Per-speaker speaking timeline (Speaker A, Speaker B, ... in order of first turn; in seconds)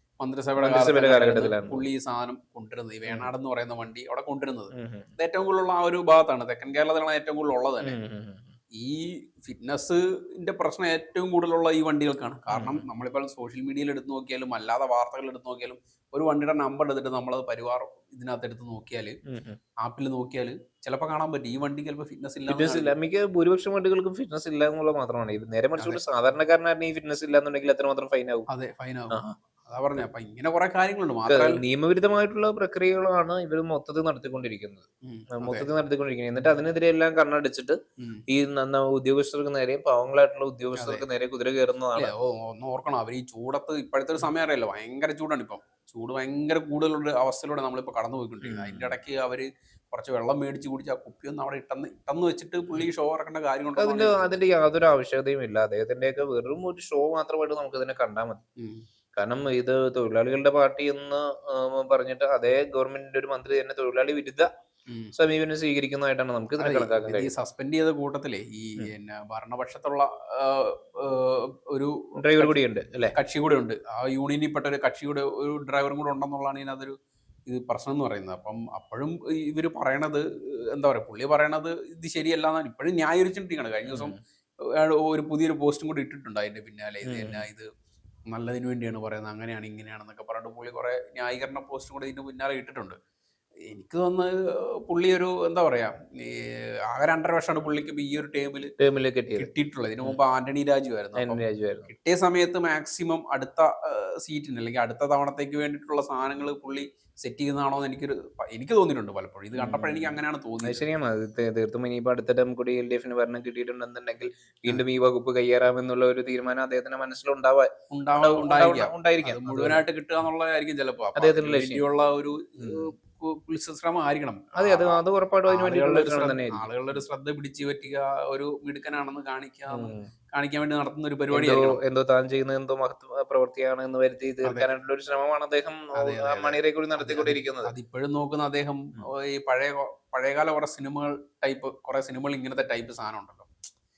Speaker A: 0.2-8.0, 8.8-19.2, 19.8-22.9, 28.5-31.6, 35.0-35.7, 38.0-38.2, 40.8-41.0, 42.0-54.4, 58.6-58.9, 64.9-65.1, 66.6-72.6, 73.1-77.0, 77.5-87.7, 88.3-93.0, 93.7-98.7, 99.3-110.8, 117.9-131.8, 136.0-143.5
Speaker B: 0.6-1.8, 4.7-5.1, 7.8-8.5, 12.5-12.9, 19.3-19.6, 22.5-28.5, 31.3-42.1, 48.4-49.0, 53.8-58.4, 59.2-64.5, 65.2-67.3, 72.2-73.2, 83.9-84.2, 87.0-87.5, 98.8-99.5, 101.2-101.9, 109.6-119.8, 121.2-121.8, 122.6-122.9, 124.6-126.7, 129.7-130.1, 131.3-137.7